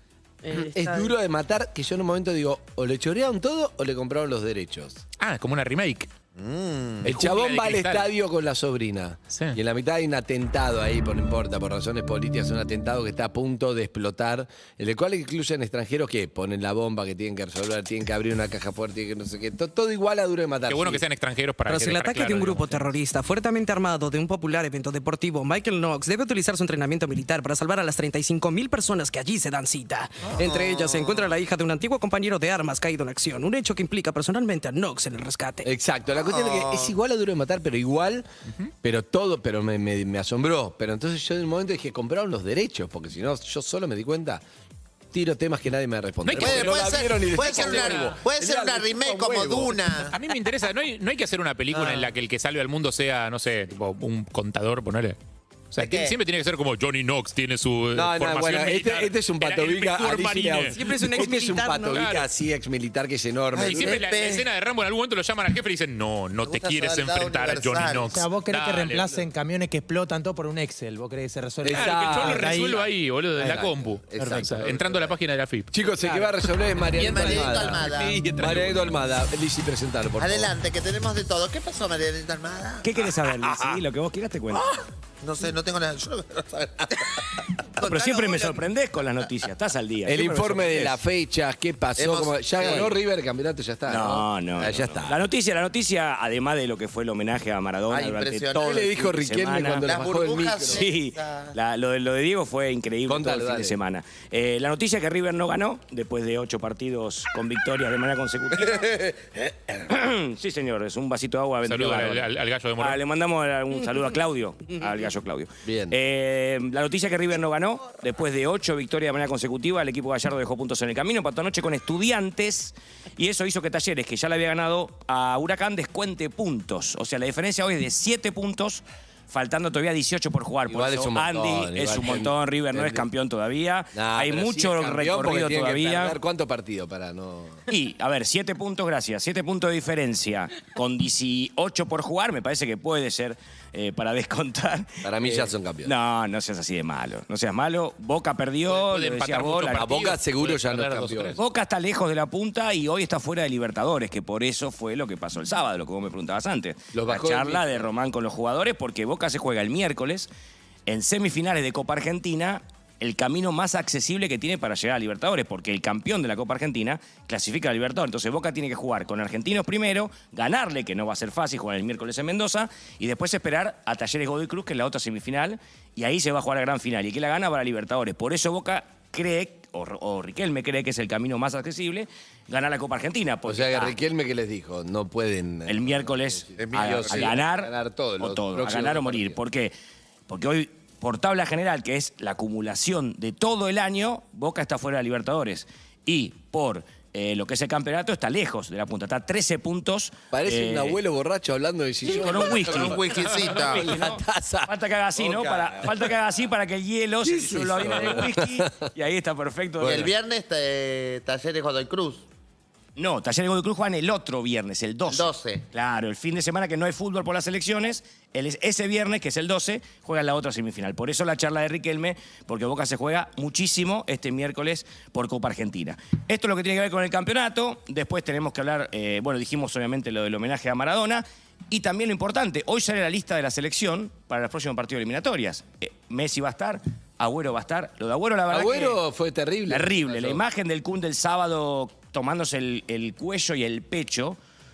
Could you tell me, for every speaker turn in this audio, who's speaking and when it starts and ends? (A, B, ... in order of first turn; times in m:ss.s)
0:00.4-0:01.1 A
0:00.6-0:05.0 B
0:05.2-0:06.1 C
0:06.4-0:07.1 D
0:07.0-0:21.0 B
0:07.0-0:08.1 C
0:09.3-0:09.6 C
0:20.7-0:23.0 C
0:21.6-0:35.7 A
0:30.3-0:31.2 D
0:35.6-0:38.2 B
0:36.1-0:36.9 D
0:38.8-0:44.4 B
0:45.1-0:49.8 B
0:46.2-0:46.9 C
0:46.3-0:50.1 D
0:47.5-0:47.8 C
0:50.1-0:55.2 C
0:51.7-0:52.1 B
0:55.7-1:01.0 C
0:55.8-0:56.2 D
0:57.9-1:04.0 B
1:00.8-1:02.0 A
1:01.9-1:02.3 C
1:03.5-1:04.5 D
1:03.6-1:09.3 C
1:06.4-1:08.2 D
1:08.1-1:12.8 E
1:11.6-1:12.8 B
1:11.7-1:15.7 C
1:13.4-1:15.1 B
1:14.2-1:14.5 E
1:15.7-1:20.5 B
1:16.0-1:16.3 E
1:16.9-1:18.3 D
1:17.2-1:18.2 E
1:18.2-1:19.0 C
1:20.2-1:22.9 D
1:22.8-1:24.7 F
1:25.2-1:28.6 D
1:27.8-1:31.0 F
1:30.0-1:35.2 B
1:32.0-1:32.9 D
1:32.6-1:32.9 F
1:33.9-1:40.0 F
1:37.9-1:38.9 D
1:38.5-1:40.8 B
1:39.8-1:41.5 D
1:40.7-1:49.1 F
1:43.0-1:43.8 B
1:49.9-2:16.2 F
1:51.6-1:53.0 C
1:55.6-1:56.0 B
2:10.7-2:13.1 B
2:13.9-2:17.6 B
2:17.7-2:29.9 F
2:25.0-2:25.9 B
2:28.7-2:31.4 C
2:29.7-2:31.4 B
2:31.4-2:40.3 F
2:36.9-2:37.8 B
2:40.9-3:03.9 F
3:03.4-3:09.4 B
3:05.7-3:09.7 F
3:06.6-3:07.4 D
3:10.3-3:21.0 F
3:20.3-3:26.1 B
3:22.0-3:30.1 F
3:22.2-3:23.9 D
3:27.2-3:28.9 B
3:29.8-3:32.2 D
3:33.0-3:59.0 F
3:35.1-3:35.6 D
3:58.5-4:00.4 B
3:59.7-4:04.4 F